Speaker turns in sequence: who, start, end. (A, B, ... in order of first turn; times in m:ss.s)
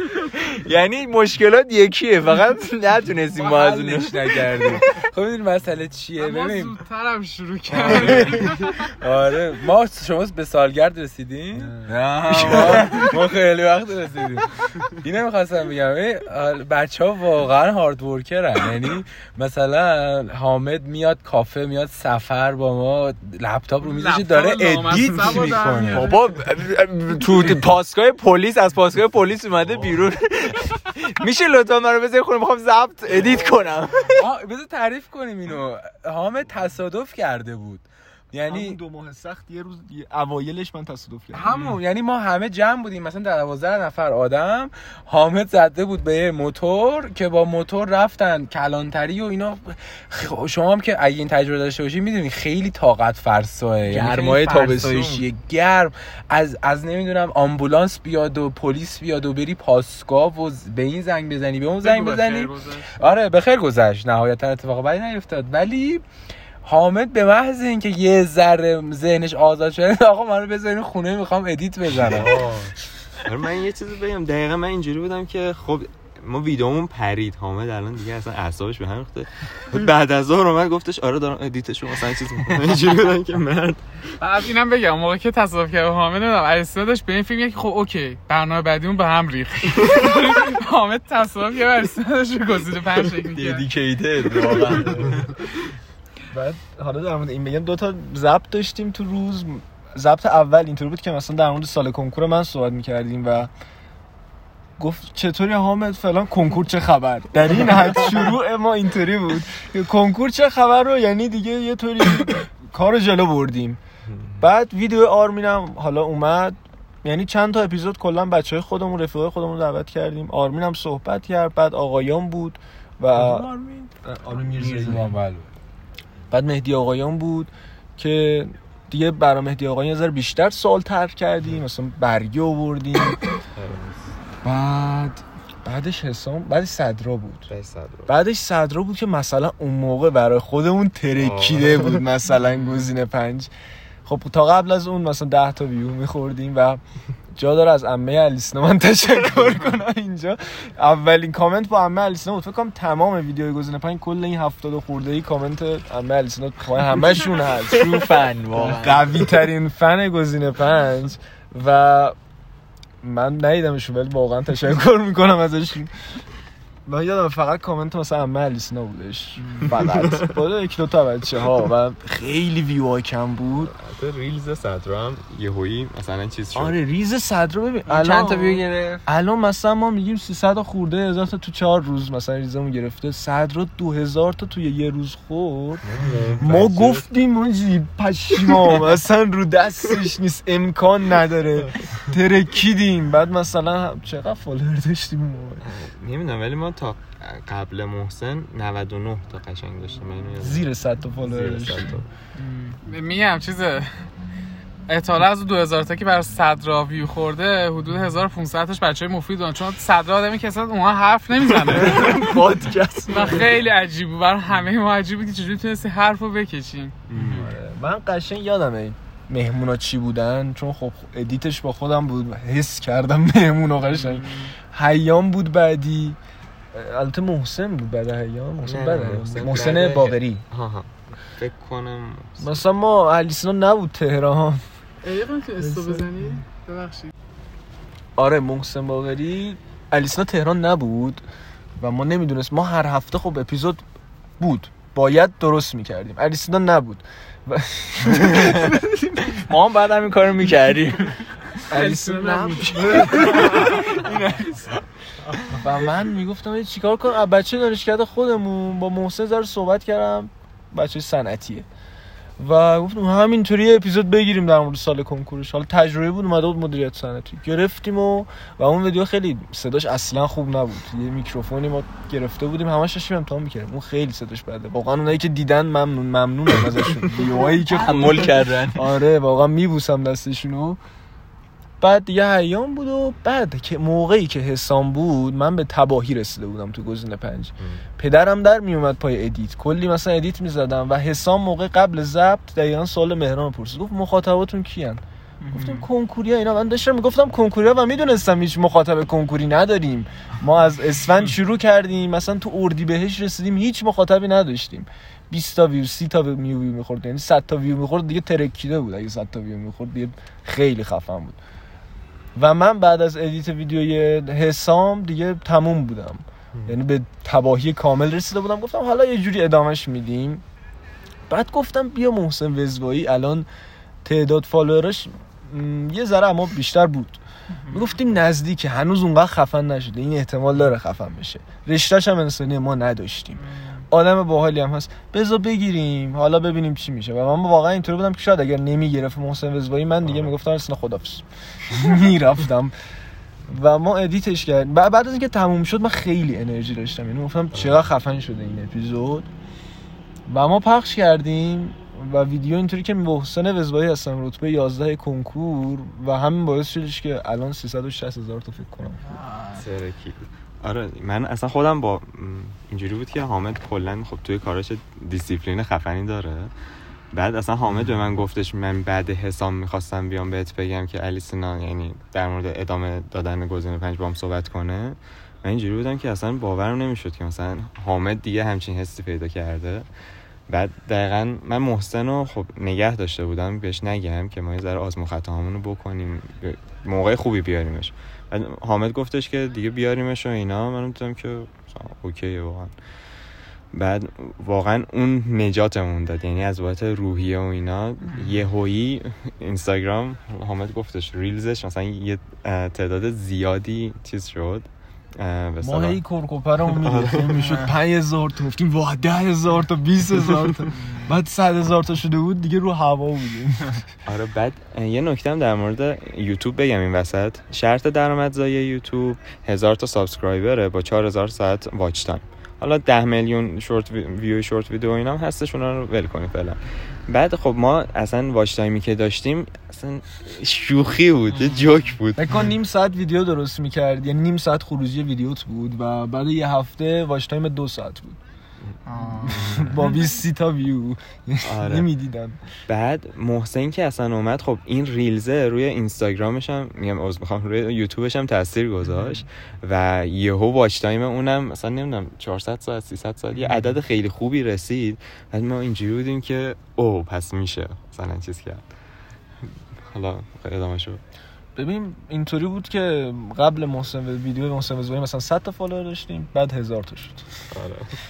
0:00.4-0:04.8 A
0:03.4-0:06.8 B
0:06.2-0:08.9 C
0:07.7-0:26.1 B
0:08.0-0:08.3 D
0:11.5-0:13.1 D
0:23.8-0:26.3 C
0:25.9-0:34.2 A
0:34.0-0:38.8 B
0:38.5-0:41.6 D
0:41.3-1:06.0 B
0:53.9-0:55.2 A
1:01.8-1:03.1 C
1:06.6-1:12.5 B
1:12.0-1:23.8 E
1:24.2-1:33.7 C
1:33.3-1:35.2 A
1:34.3-1:35.2 E
1:36.3-1:43.5 D
1:44.8-1:53.8 D
1:54.4-2:03.5 D
2:03.2-2:03.9 B
2:04.0-2:05.2 D
2:04.5-2:05.5 B
2:04.6-2:05.0 A
2:06.3-2:13.2 D
2:13.6-2:13.8 E
2:13.7-2:14.0 B
2:14.4-2:17.5 D
2:17.5-2:18.2 E
2:18.1-2:23.5 D
2:21.2-2:21.9 E
2:24.0-2:26.8 D
2:27.4-2:42.2 D
2:37.8-2:39.2 A
2:43.0-2:45.9 D
2:46.9-2:53.7 D
2:49.4-2:49.7 A
2:50.0-2:50.3 E
2:53.6-2:56.8 E
2:56.5-3:05.9 D
2:57.9-2:59.0 A
3:05.9-3:06.5 B
3:06.0-3:07.0 E
3:06.4-3:15.6 D
3:15.6-3:20.7 E
3:20.4-3:22.0 D
3:21.2-3:22.1 E
3:22.5-3:24.0 C
3:24.9-3:32.4 C
3:31.8-3:33.4 D
3:33.1-3:37.5 C
3:37.1-3:37.5 E
3:37.2-3:46.2 D
3:46.7-3:50.4 D
3:48.6-3:52.6 E
3:52.4-3:54.6 D
3:55.0-3:57.1 C
3:55.6-3:56.3 D
3:58.2-4:01.2 D
4:01.8-4:03.8 D
4:04.4-4:09.4 D
4:09.4-4:11.2 A
4:11.7-4:14.1 D
4:11.7-4:14.0 C
4:13.5-4:13.8 A
4:15.5-4:21.7 D
4:22.4-4:40.8 D
4:37.4-4:38.9 A
4:41.8-5:11.4 D
4:55.4-4:55.9 A
5:12.4-5:20.4 D
5:21.3-5:23.5 D
5:24.0-5:42.8 D
5:40.0-5:40.3 E
5:43.5-5:49.3 D
5:47.5-5:47.8 E
5:50.3-5:59.0 D
5:59.0-5:59.6 A
5:59.5-6:06.5 E
6:07.1-6:19.9 E
6:20.5-6:32.7 E
6:33.7-6:46.0 E
6:45.6-6:53.9 D
6:46.7-6:47.5 E
6:54.0-7:12.4 E
7:11.3-7:11.7 C
7:12.2-7:18.2 D
7:18.9-7:19.6 A
7:19.1-7:22.4 D
7:19.4-7:19.8 E
7:21.4-7:21.9 E
7:22.7-7:38.7 E
7:33.4-7:33.7 D
7:39.9-7:41.0 E
7:41.6-7:47.3 D
7:47.5-7:47.9 E